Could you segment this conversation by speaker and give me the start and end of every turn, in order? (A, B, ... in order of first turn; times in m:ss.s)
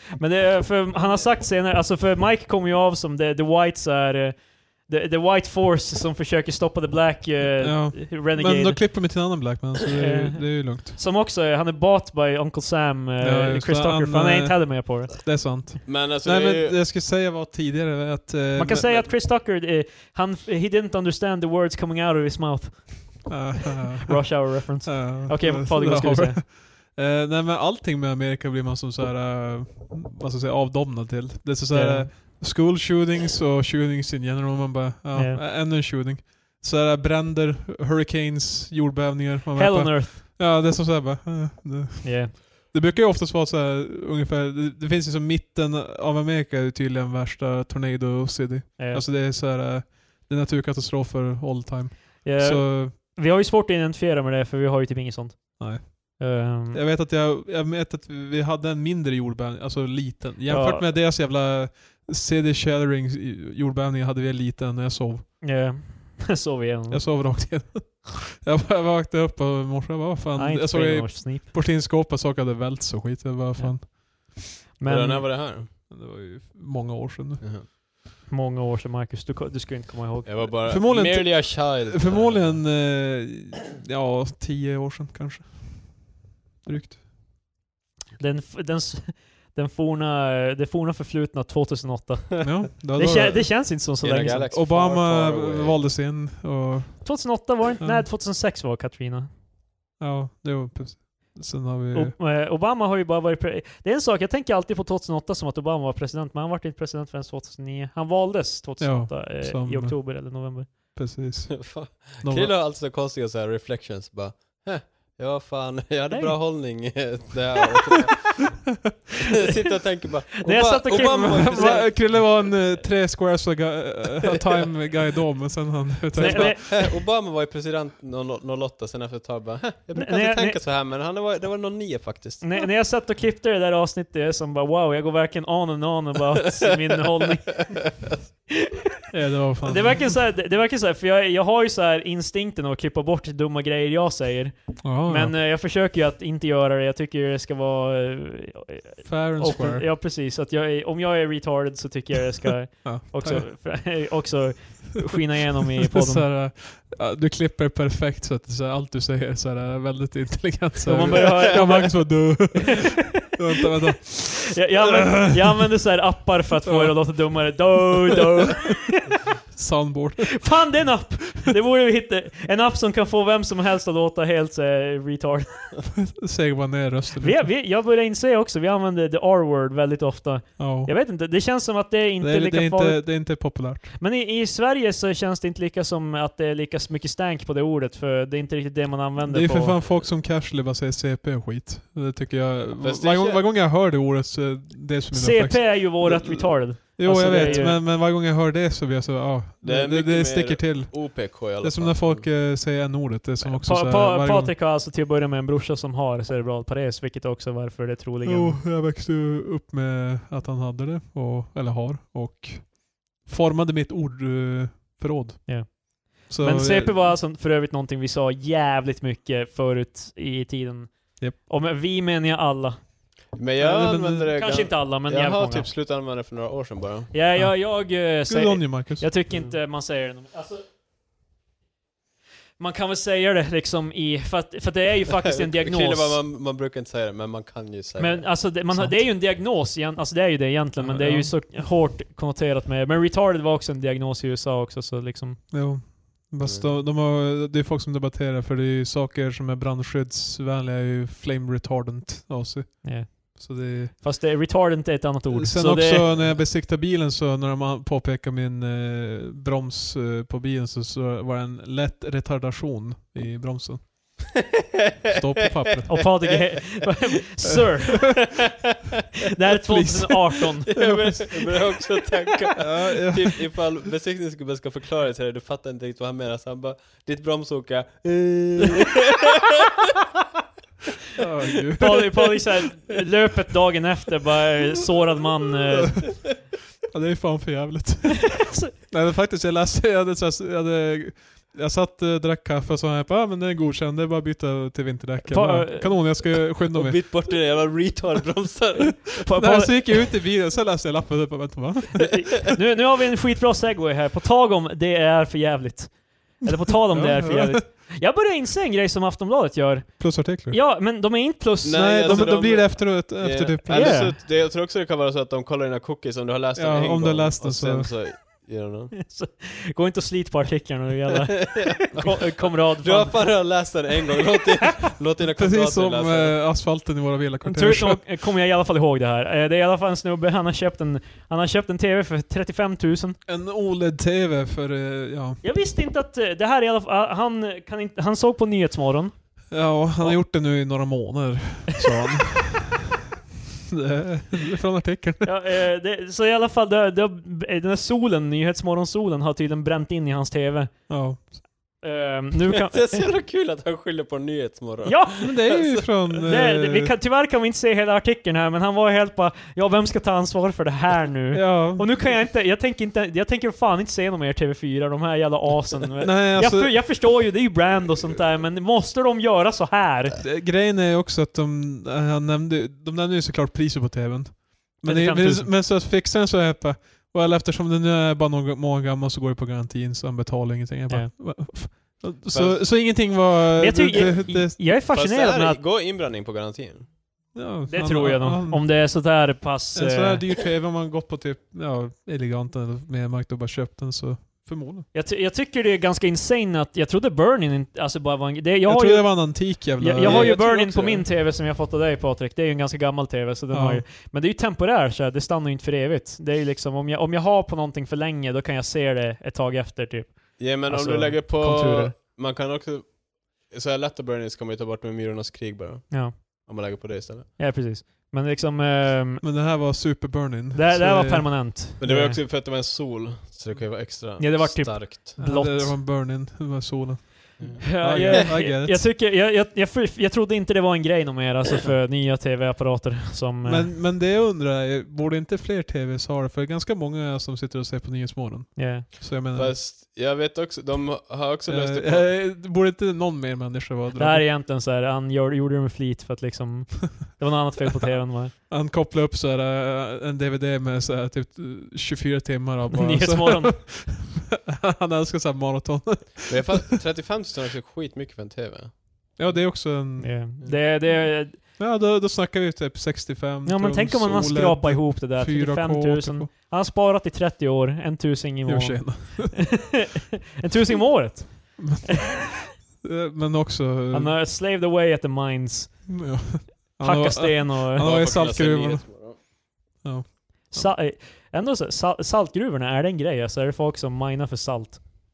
0:00.2-0:09.2 A
0:07.6-0:11.0 B
0:10.0-0:15.3 A
0:13.2-0:19.0 B
0:15.8-0:16.8 C
0:18.6-0:26.4 A
0:23.3-0:53.0 B
0:31.7-0:32.1 A
0:35.1-0:35.4 A
0:39.6-0:40.2 A
0:42.0-0:42.3 A
0:48.8-0:49.0 A
0:52.2-0:56.8 A
0:55.6-1:05.3 B
1:00.5-1:00.9 A
1:05.4-1:07.4 A
1:06.9-1:14.4 B
1:10.4-1:11.5 A
1:13.6-1:15.3 A
1:14.8-1:15.7 C
1:15.8-1:17.4 B
1:17.4-1:17.6 C
1:18.3-1:20.8 A
1:20.2-1:22.6 C
1:20.6-1:27.0 B
1:28.2-1:34.5 A
1:32.4-1:33.6 B
1:34.0-1:35.8 C
1:34.5-1:38.1 B
1:37.0-1:39.3 A
1:40.0-1:42.2 B
1:41.9-1:50.8 A
1:48.8-1:52.5 B
1:51.5-1:58.7 C
1:56.1-1:57.0 A
1:59.3-2:02.4 C
2:00.4-2:01.9 A
2:01.1-2:06.7 B
2:06.1-2:06.9 A
2:06.2-2:12.6 C
2:09.9-2:10.6 A
2:12.4-2:18.2 A
2:17.7-2:18.1 C
2:19.1-2:20.1 B
2:19.6-2:36.3 A
2:24.8-2:25.4 B
2:29.0-2:29.9 B
2:32.8-2:33.9 B
2:35.8-2:45.7 B
2:40.8-2:43.0 A
2:44.4-2:49.1 A
2:46.6-2:47.8 B
2:49.5-2:50.9 B
2:50.4-2:55.8 A
2:56.0-2:57.5 B
2:57.2-3:09.8 A
3:00.6-3:00.9 B
3:02.2-3:03.9 B
3:09.2-3:24.5 B
3:12.8-3:13.4 C
3:15.1-3:17.8 A
3:17.2-3:17.7 C
3:19.6-3:22.3 C
3:23.4-3:28.6 A
3:28.2-3:37.0 B
3:35.5-3:42.9 A
3:43.3-3:47.1 C
3:43.6-3:44.3 B
3:44.3-3:45.7 A
3:47.1-3:50.6 A
3:47.3-3:49.1 B
3:49.3-3:49.5 C
3:52.6-3:56.2 A
3:55.3-3:58.6 C
3:58.0-4:05.5 A
3:58.7-3:59.0 B
4:00.8-4:01.3 B
4:05.5-4:14.0 B
4:06.4-4:06.7 C
4:12.8-4:16.1 A
4:15.3-4:24.4 B
4:25.1-4:26.2 B
4:25.9-4:28.4 A
4:25.9-4:26.3 C
4:29.3-4:31.2 A
4:29.7-4:31.5 B
4:30.7-4:39.7 C
4:32.6-4:33.7 B
4:41.2-4:42.2 B
4:41.8-4:46.3 A
4:46.0-4:46.3 B
4:46.9-4:57.2 B
4:48.3-4:48.7 A
4:55.2-4:56.3 A
4:56.7-4:59.1 C
4:59.1-5:00.0 A
4:59.2-5:02.3 B
5:02.0-5:12.6 A
5:06.9-5:07.6 B
5:10.0-5:10.6 B
5:11.6-5:18.9 C
5:11.7-5:14.1 B
5:13.7-5:14.2 A
5:16.6-5:17.9 B
5:18.9-5:23.8 A
5:21.4-5:26.4 C
5:25.4-5:28.0 B
5:27.4-5:33.2 A
5:33.3-5:35.4 B
5:35.4-5:40.2 A
5:39.5-5:42.9 B
5:43.7-5:45.3 B
5:45.2-5:53.0 A
5:50.9-5:51.4 B
5:52.5-5:56.0 C
5:54.8-6:10.2 A
5:55.2-5:56.9 B
6:01.3-6:01.9 B
6:06.0-6:06.8 B
6:10.2-6:24.6 B
6:14.8-6:15.6 A
6:20.9-6:21.7 A
6:22.3-6:22.7 C
6:23.6-6:25.6 A
6:24.9-6:26.9 C
6:27.3-6:29.0 B
6:27.7-6:30.2 A
6:29.7-6:34.9 B
6:34.9-6:51.9 A
6:38.6-6:40.4 B
6:40.0-6:41.1 C
6:43.5-6:43.8 B
6:50.4-6:57.3 C
6:57.4-6:59.3 A
6:59.2-7:01.5 B
7:00.5-7:02.2 A
7:01.8-7:05.2 C
7:04.2-7:05.8 A
7:05.2-7:08.9 B
7:07.4-7:08.2 C
7:07.6-7:13.7 A
7:13.4-7:19.6 B
7:18.6-7:18.9 A
7:19.3-7:22.1 C
7:21.5-7:24.3 B
7:24.0-7:28.3 A
7:28.5-7:36.7 B
7:32.7-7:33.7 A
7:36.3-7:39.4 C
7:39.2-7:46.3 B
7:40.0-7:41.4 A
7:43.4-7:51.9 A
7:48.4-7:49.6 B
7:51.6-7:54.2 B
7:53.9-7:56.3 A
7:55.9-8:00.8 B
7:56.8-7:57.9 A
7:57.8-7:59.2 C
8:00.5-8:04.8 A